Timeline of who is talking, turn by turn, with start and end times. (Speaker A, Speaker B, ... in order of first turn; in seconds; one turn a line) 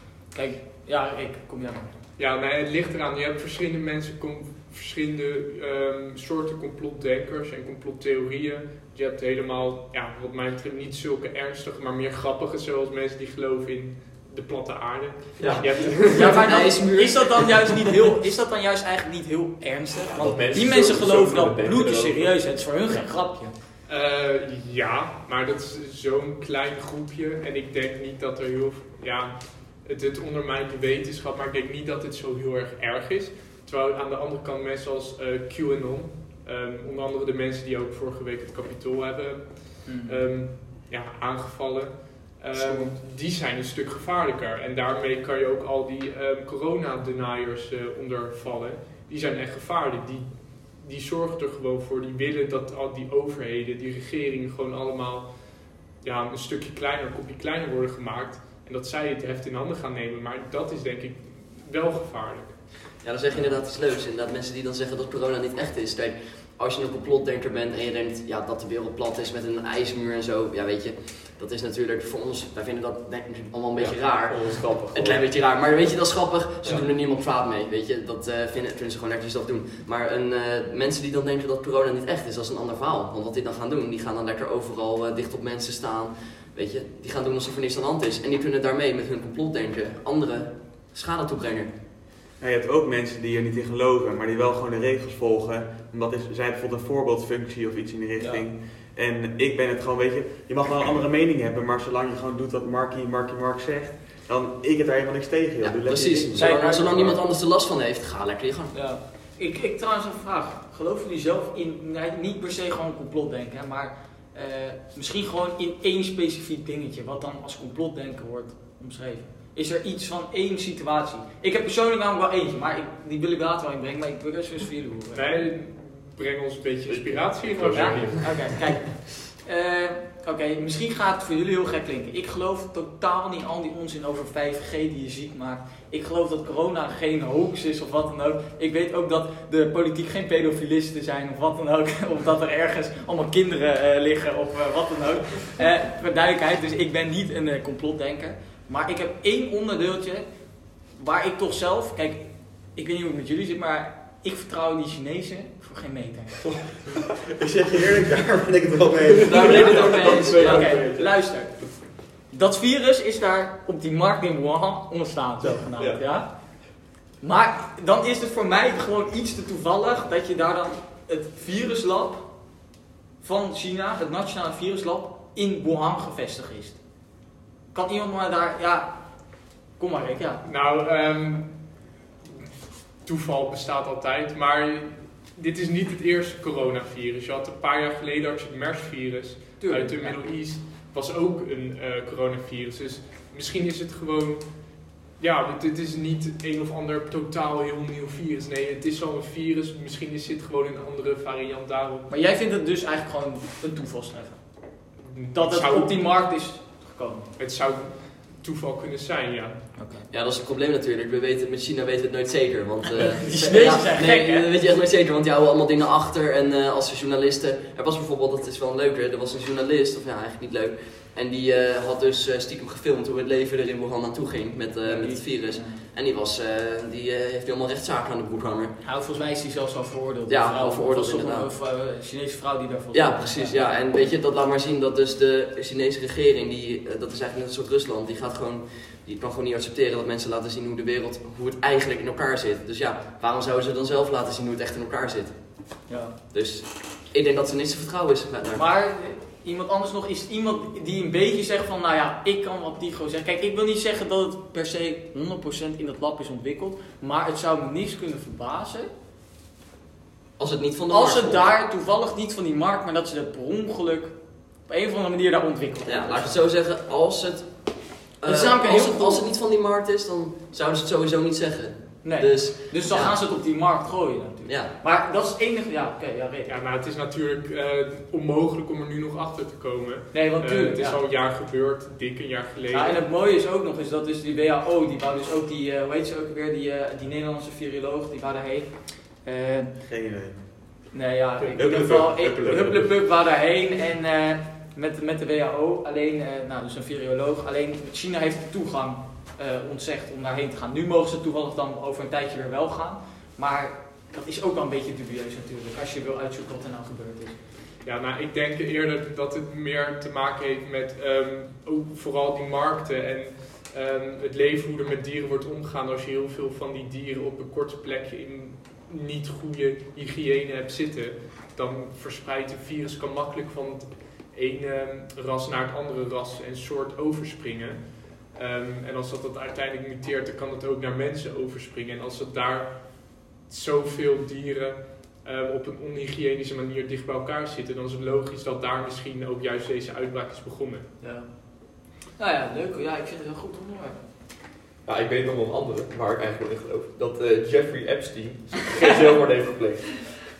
Speaker A: 0.3-1.9
Speaker B: 2.2-16.6
Speaker C: 15.4-15.9
Speaker D: 15.4-17.9
Speaker A: 16.1-23.5
Speaker C: 20.1-22.6
Speaker B: 23.9-62.7
Speaker A: 39.9-40.2
Speaker A: 42.5-42.9
Speaker D: 63.0-91.7
Speaker C: 73.8-75.3
Speaker C: 76.6-76.9
Speaker E: 92.4-107.2
Speaker A: 98.2-98.4
Speaker D: 105.6-108.8
Speaker A: 106.3-107.0
Speaker A: 108.7-125.5
Speaker B: 125.1-128.4
Speaker C: 126.9-128.7
Speaker A: 127.7-156.6
Speaker E: 157.3-159.9
Speaker C: 159.2-161.9
Speaker D: 159.3-160.9
Speaker A: 160.3-172.6
Speaker C: 165.8-166.1
Speaker A: 173.2-176.8
Speaker A: 177.7-180.4
Speaker B: 180.4-181.8
Speaker B: 182.9-202.1
Speaker A: 189.6-190.2
Speaker A: 202.1-207.3
Speaker B: 205.0-206.2
Speaker B: 207.4-209.8
Speaker A: 209.8-210.1
Speaker D: 210.1-228.8
Speaker A: 213.2-214.5
Speaker A: 224.8-225.8
Speaker A: 228.8-233.6
Speaker D: 230.3-231.5
Speaker D: 232.9-248.7
Speaker A: 245.9-246.1
Speaker A: 248.5-258.9
Speaker D: 260.4-261.4
Speaker A: 260.9-266.4
Speaker D: 265.9-273.2
Speaker A: 268.2-269.2
Speaker A: 272.0-276.5
Speaker D: 274.4-274.7
Speaker B: 276.5-283.0
Speaker A: 280.1-281.0
Speaker A: 282.7-289.7
Speaker E: 289.9-290.5
Speaker A: 290.9-307.4
Speaker E: 291.6-292.9
Speaker B: 307.8-340.9
Speaker A: 341.0-344.0
Speaker C: 344.9-350.2